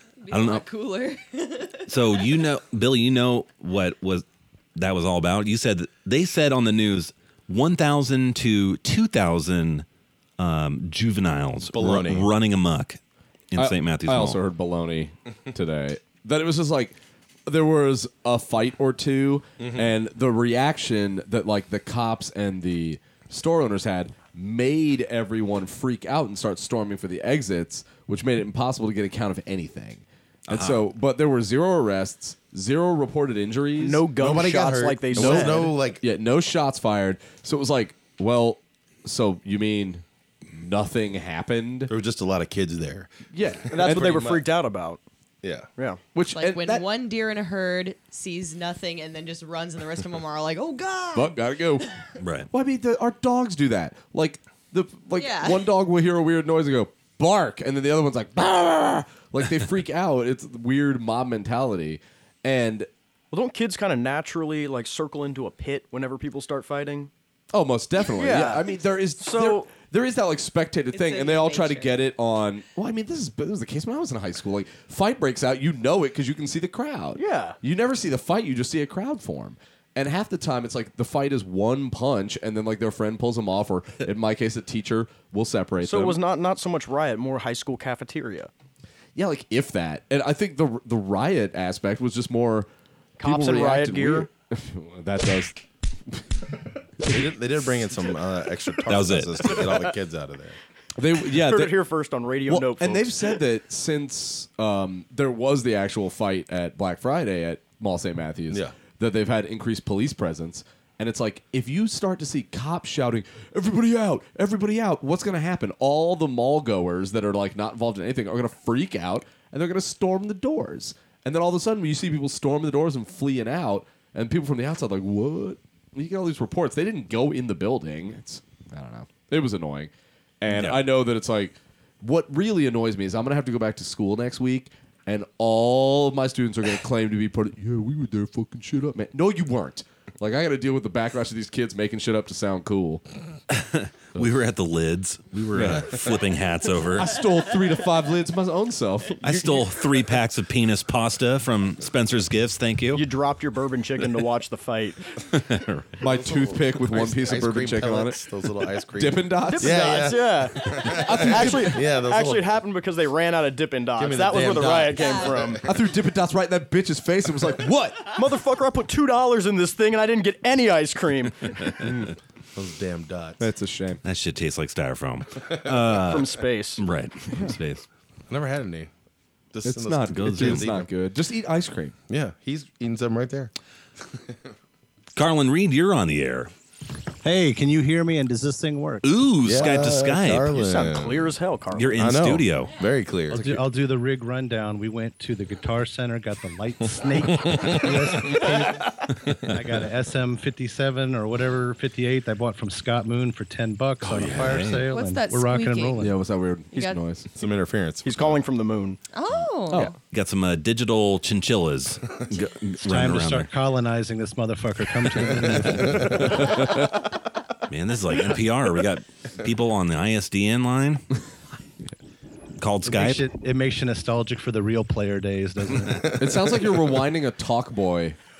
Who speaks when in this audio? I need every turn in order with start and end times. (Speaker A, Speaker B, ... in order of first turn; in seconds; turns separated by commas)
Speaker A: 0.2-2.2, Speaker B: 0.3-0.7, Speaker B: 1.9-4.2, Speaker B: 4.8-9.9, Speaker B: 10.4-13.0, Speaker C: 11.7-12.3, Speaker B: 13.5-14.4, Speaker D: 13.6-34.1, Speaker C: 19.6-19.9, Speaker B: 30.5-30.8, Speaker E: 33.8-35.8, Speaker C: 34.1-36.0, Speaker D: 35.1-41.9, Speaker C: 41.9-43.1, Speaker D: 43.3-44.2, Speaker E: 43.7-45.0, Speaker C: 43.8-44.5, Speaker C: 45.4-45.7, Speaker E: 45.8-46.0, Speaker D: 46.1-46.9, Speaker A: 46.3-51.4, Speaker D: 51.1-51.9, Speaker B: 52.2-52.5, Speaker D: 52.5-62.9, Speaker A: 55.1-55.7, Speaker E: 63.3-67.1, Speaker D: 67.5-86.2, Speaker E: 68.1-69.7, Speaker A: 70.9-72.1, Speaker E: 77.2-77.6, Speaker E: 85.8-88.5, Speaker D: 89.2-92.7, Speaker E: 93.2-94.3, Speaker D: 93.2-95.6, Speaker C: 97.0-100.6, Speaker B: 98.9-99.7, Speaker D: 101.0-101.8, Speaker E: 101.3-103.4, Speaker D: 102.5-143.0, Speaker C: 108.5-108.8, Speaker B: 130.5-130.8, Speaker B: 143.5-147.2, Speaker D: 145.5-146.1, Speaker D: 146.9-149.8, Speaker B: 149.2-153.0, Speaker E: 152.9-155.0, Speaker B: 155.3-155.7, Speaker D: 156.0-158.2, Speaker C: 156.1-162.5, Speaker D: 159.0-159.8, Speaker E: 159.4-165.7, Speaker D: 160.9-161.8, Speaker C: 164.0-165.6, Speaker A: 164.9-165.4, Speaker D: 165.6-168.1, Speaker E: 168.1-171.6, Speaker D: 171.8-172.1, Speaker C: 172.6-173.5, Speaker D: 173.4-174.0, Speaker B: 174.1-177.8, Speaker E: 176.1-176.8, Speaker C: 178.3-178.9, Speaker C: 179.5-180.9, Speaker D: 179.6-181.9, Speaker B: 180.1-180.7, Speaker C: 182.1-183.5, Speaker B: 185.2-186.5, Speaker F: 187.2-189.0, Speaker B: 189.0-190.5, Speaker C: 189.4-191.3, Speaker E: 190.5-192.2, Speaker B: 191.7-192.7, Speaker C: 192.0-193.6, Speaker F: 193.3-206.2, Speaker D: 193.3-193.6, Speaker C: 197.3-198.5, Speaker B: 204.0-204.9, Speaker C: 204.1-204.6, Speaker A: 204.9-206.1, Speaker D: 206.0-207.3, Speaker A: 206.7-207.0, Speaker C: 207.4-208.3, Speaker E: 208.0-209.0, Speaker A: 209.1-210.0, Speaker B: 210.1-213.5, Speaker F: 212.8-216.5, Speaker B: 215.3-216.0, Speaker D: 216.0-216.9, Speaker B: 217.7-221.0, Speaker B: 222.6-223.3, Speaker F: 222.8-226.1, Speaker D: 226.2-228.2